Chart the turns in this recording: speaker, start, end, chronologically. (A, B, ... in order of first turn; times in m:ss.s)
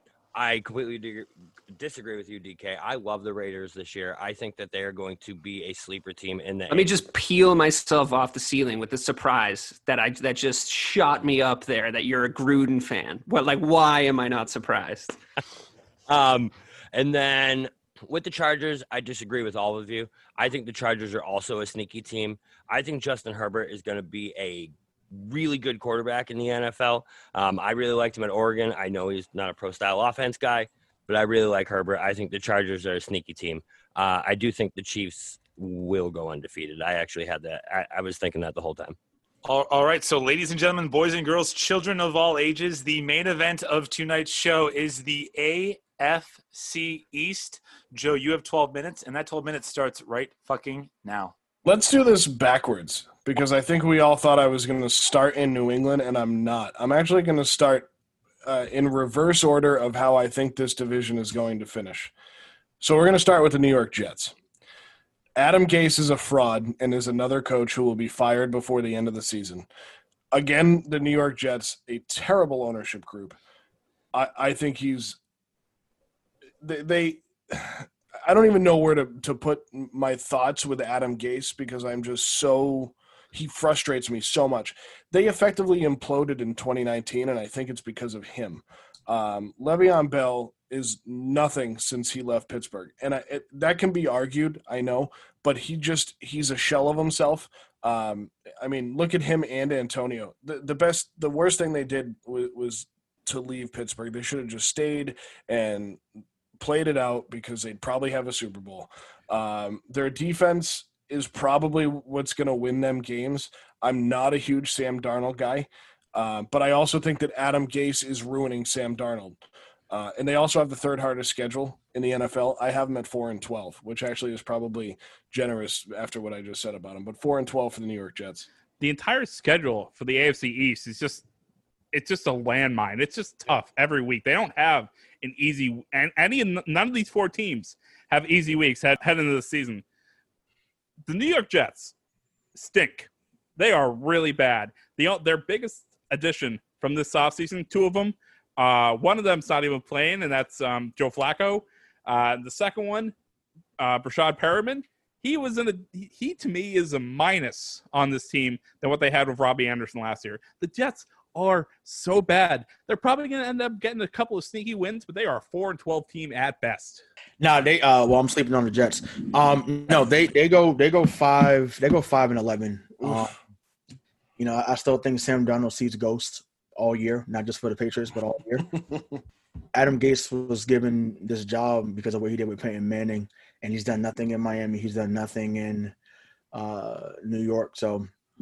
0:00.3-0:06.9 A
0:06.7-0:15.2 B
0:16.1-0:39.0 A
0:39.4-0:51.3 C
0:51.6-0:57.9 D
0:58.4-1:02.1 D
1:02.8-1:04.3 D
1:05.4-1:09.7 D
1:10.3-1:13.4 D
1:14.1-1:15.2 D
1:16.6-1:46.0 D
1:46.6-1:59.4 D
1:59.9-2:08.5 D
2:08.8-2:11.2 E
2:11.9-2:19.8 E
2:21.1-2:21.9 E
2:22.6-2:33.1 E
2:33.8-2:47.0 E
2:47.4-2:53.4 F
2:53.0-2:53.3 D
2:54.4-2:58.7 F
2:59.7-3:05.9 F
3:06.5-3:08.1 F